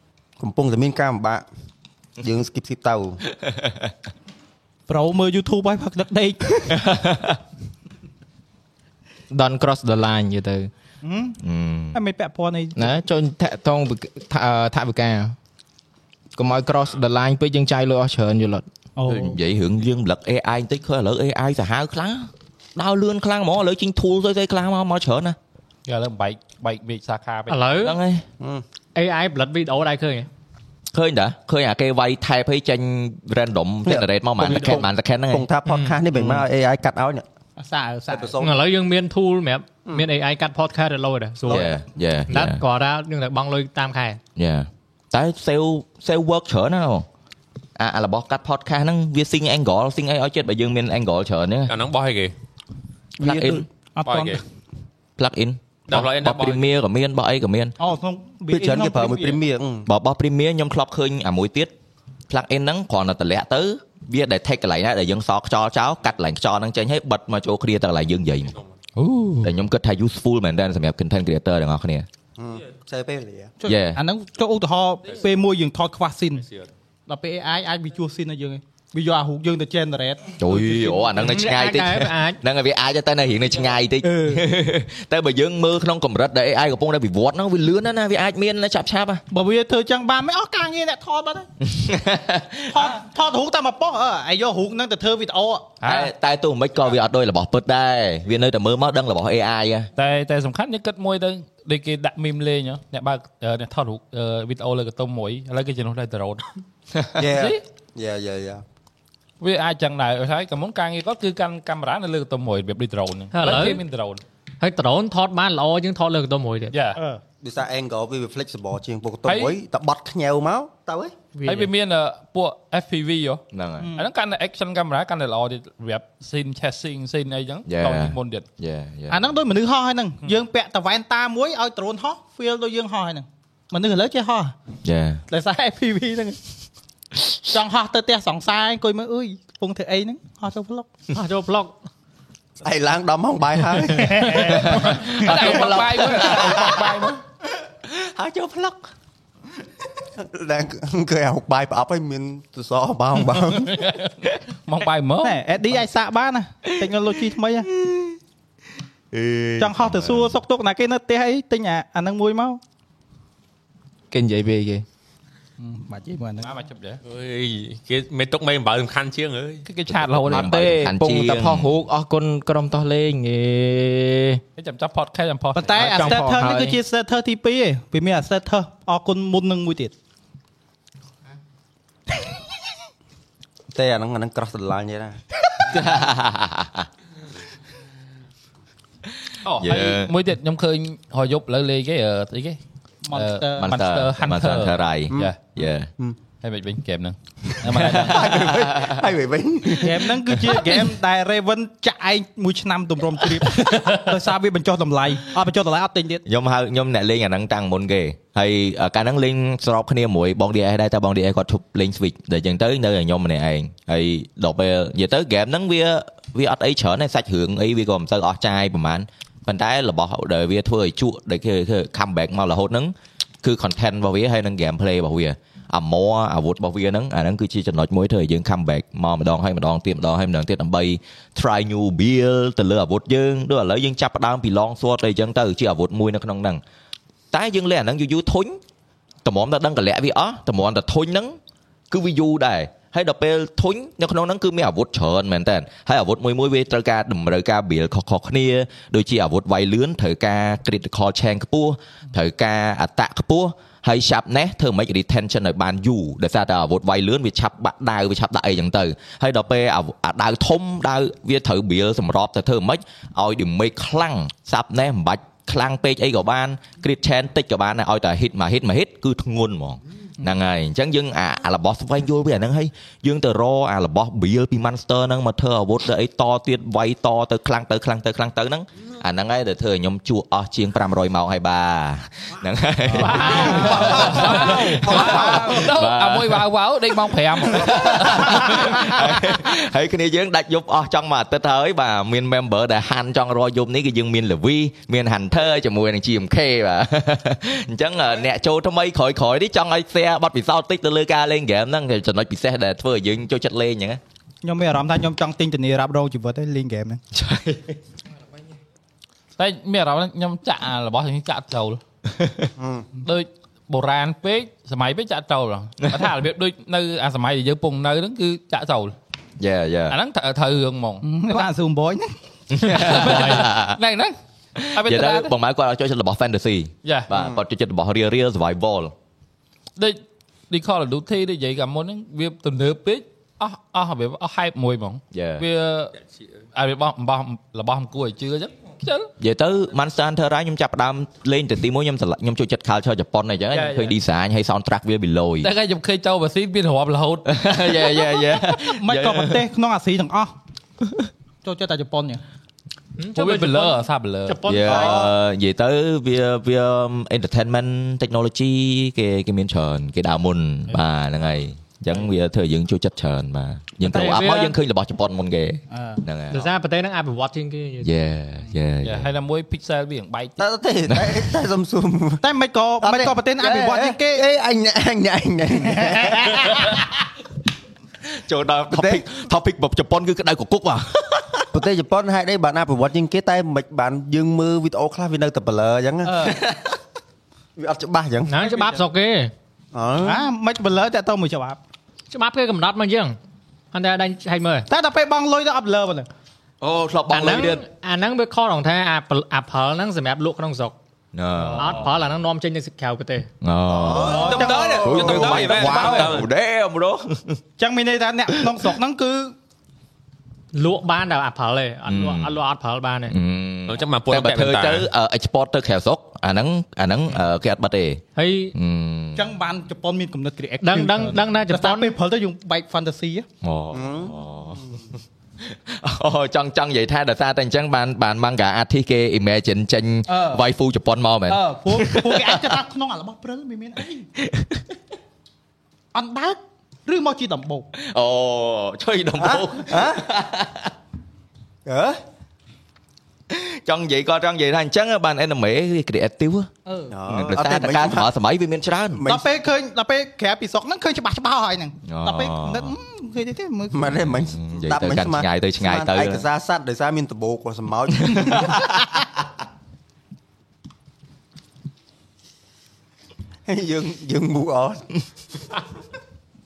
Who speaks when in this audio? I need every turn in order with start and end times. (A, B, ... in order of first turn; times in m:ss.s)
0:00.4-0:01.4 A
0:02.2-0:03.2 A
0:03.4-0:03.9 B
0:04.9-0:06.7 C
0:06.7-0:07.4 B
0:09.3-0:10.7 D
0:11.0-0:11.4 C
0:11.4-0:12.0 B
0:11.9-0:12.8 C
0:12.8-0:15.3 D
0:16.4-0:18.6 D
0:19.0-0:19.4 C
0:19.1-0:25.4 B
0:25.9-0:27.6 E
0:27.5-0:28.0 F
0:27.8-0:28.2 B
0:28.9-0:30.3 F
0:30.9-0:35.5 B
0:33.8-0:37.2 A
0:35.6-0:36.0 F
0:37.6-0:38.3 C
0:38.1-0:38.6 A
0:38.4-0:41.7 F
0:41.5-0:42.6 B
0:42.3-0:44.2 F
0:44.4-0:47.0 B
0:47.8-0:51.7 B
0:51.7-0:52.3 G
0:53.2-0:53.6 A
0:53.2-0:53.6 B
0:54.0-0:54.4 C
0:54.0-0:54.4 G
0:55.2-0:57.8 B
0:55.9-0:56.7 G
0:57.8-0:59.4 C
0:58.5-0:59.9 A
0:59.8-1:01.7 B
1:02.3-1:08.5 B
1:09.0-1:09.5 E
1:09.4-1:12.1 B
1:12.4-1:13.5 A
1:13.6-1:16.4 C
1:13.6-1:14.0 B
1:16.4-1:16.7 G
1:17.1-1:20.6 C
1:20.4-1:29.2 B
1:21.1-1:22.4 F
1:24.0-1:24.4 C
1:29.3-1:31.5 C
1:31.6-1:33.0 B
1:32.7-1:35.8 C
1:35.8-1:36.1 E
1:35.8-1:39.9 B
1:40.0-1:46.4 E
1:47.2-1:48.6 A
1:47.3-1:47.6 E
1:49.4-1:54.2 E
1:53.3-1:53.8 F
1:54.6-1:56.8 F
1:56.7-1:57.0 E
1:57.4-2:01.1 A
1:59.2-1:59.6 E
2:01.4-2:03.4 E
2:03.5-2:03.9 B
2:03.8-2:04.1 C
2:04.0-2:08.4 E
2:07.7-2:09.2 B
2:09.1-2:14.5 C
2:14.8-2:15.2 B
2:15.3-2:16.4 C
2:17.3-2:20.9 C
2:21.1-2:21.7 F
2:22.6-2:24.7 A
2:23.9-2:25.3 C
2:24.5-2:26.9 B
2:24.8-2:27.2 E
2:25.3-2:27.0 A
2:28.0-2:28.8 B
2:30.2-2:33.8 A
2:33.5-2:35.4 E
2:35.2-2:37.7 C
2:37.8-2:38.1 B
2:39.1-2:40.3 B
2:39.6-2:42.6 C
2:44.1-2:44.8 D
2:45.6-2:46.5 C
2:46.4-2:47.0 E
2:47.0-2:49.6 G
2:49.6-2:50.9 E
2:49.9-2:51.7 B
2:50.3-2:54.4 D
2:54.6-2:56.2 E
2:55.5-2:59.9 C
2:55.8-2:56.8 D
3:03.7-3:05.2 A
3:05.6-3:06.9 B
3:09.4-3:12.6 E
3:09.5-3:10.1 B
3:13.0-3:13.7 C
3:13.1-3:15.4 E
3:13.6-3:15.9 B
3:16.4-3:18.5 E
3:17.7-3:19.0 B
3:17.8-3:20.5 A
3:19.8-3:26.2 C
3:26.3-3:56.6 B
3:57.3-3:58.6 B
3:59.2-4:01.4 B
4:01.9-4:46.5 B
4:42.9-4:45.6 C
4:42.9-4:48.8 E
4:47.4-5:04.0 B
5:04.4-5:07.0 C
5:07.1-5:07.8 B
5:09.4-5:11.8 E
5:12.2-5:12.5 B
5:12.6-5:12.8 A
5:13.0-5:18.9 E
5:19.4-5:20.0 B
5:19.9-5:21.4 E
5:21.0-5:22.1 C
5:22.5-5:23.8 B
5:22.6-5:24.2 E
5:24.6-5:28.9 B
5:24.8-5:25.2 C
5:26.8-5:27.1 E
5:27.1-5:27.4 A
5:29.8-5:35.9 E
5:35.1-5:35.4 B
5:36.5-5:39.1 E
5:39.2-5:45.5 B
5:43.5-5:44.0 E
5:45.4-5:47.3 E
5:47.2-5:49.4 B
5:48.7-5:50.3 C
5:51.4-5:52.2 C
5:53.0-5:55.1 F
5:53.1-5:54.5 E
5:54.4-6:06.5 B
6:03.8-6:04.5 F
6:05.7-6:06.0 C
6:06.3-6:07.9 F
6:07.8-6:09.1 B
6:08.8-6:10.4 E
6:10.4-6:12.2 A
6:10.9-6:11.2 B
6:12.2-6:14.2 C
6:12.8-6:16.8 A
6:18.1-6:21.5 B
6:18.7-6:19.0 A
6:21.5-6:26.4 A
6:26.0-6:26.4 C
6:27.6-6:28.3 A
6:28.3-6:29.3 F
6:28.4-6:28.8 C
6:29.7-6:30.3 A
6:30.0-6:31.6 C
6:32.1-6:33.2 F
6:33.7-6:34.7 F
6:34.7-6:36.1 C
6:36.6-6:37.6 B
6:37.1-6:40.8 F
6:41.1-6:41.8 B
6:41.5-6:43.3 F
6:43.4-6:47.4 B
6:43.8-6:45.5 A
6:44.0-6:45.4 C
6:44.1-6:46.3 G
6:47.6-6:49.4 C
6:50.5-6:53.2 F
6:51.9-6:52.4 B
6:53.1-6:58.0 B
6:53.7-6:54.9 G
6:58.2-6:58.5 F
6:58.5-6:59.3 B
6:59.1-7:03.2 C
7:00.6-7:02.0 F
7:03.4-7:04.6 B
7:03.7-7:04.2 A
7:05.5-7:12.6 B
7:10.1-7:10.4 C
7:11.3-7:14.0 C
7:14.2-7:14.6 B
7:15.9-7:17.7 C
7:17.8-7:20.7 B
7:19.2-7:20.0 A
7:21.6-7:22.0 A
7:23.3-7:26.5 B
7:26.6-7:26.9 C
7:26.9-7:28.1 A
7:27.1-7:29.0 B
7:28.9-7:29.2 A
7:29.0-7:33.9 C
7:31.9-7:32.7 B
7:33.7-7:38.8 A
7:34.3-7:36.2 B
7:38.1-7:38.6 B
7:43.4-7:44.9 A